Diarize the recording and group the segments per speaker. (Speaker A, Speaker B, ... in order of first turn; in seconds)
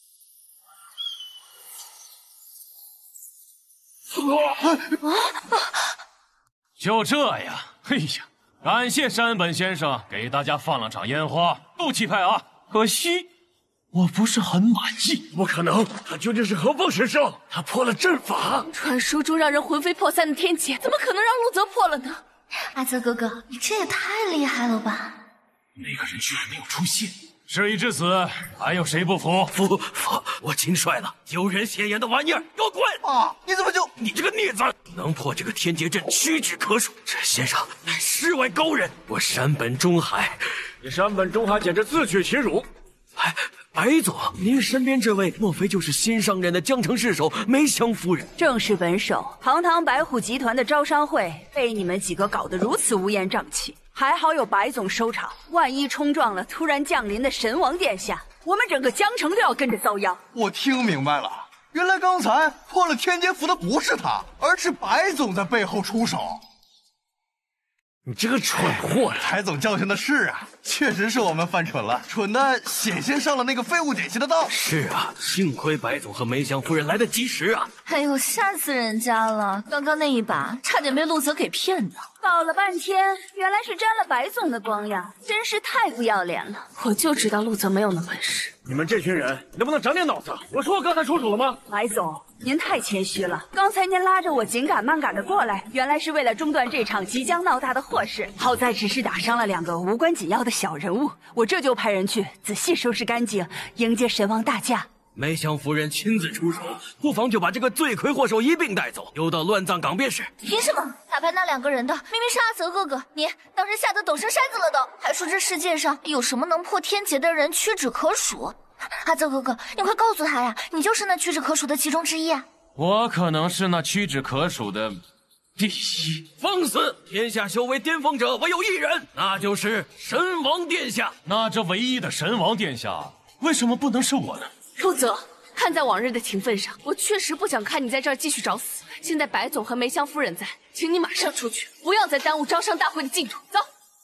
Speaker A: 6.8-13.3, 13.9-15.3, 25.8-29.5, 122.8-125.0, 125.6-126.2, 131.2-134.5
Speaker B: 15.3-18.7, 40.8-42.7, 68.0-69.2, 88.6-91.6
Speaker C: 18.7-22.2, 86.8-88.5, 134.8-143.7
Speaker D: 22.6-25.2, 77.8-82.1, 110.4-122.5
Speaker E: 29.6-33.0, 34.0-40.4, 43.2-48.3, 74.5-77.7, 105.2-110.3, 126.4-131.1
Speaker F: 33.0-33.9, 60.3-66.4, 69.2-74.5
Speaker G: 48.4-60.2, 82.2-86.7, 91.7-104.9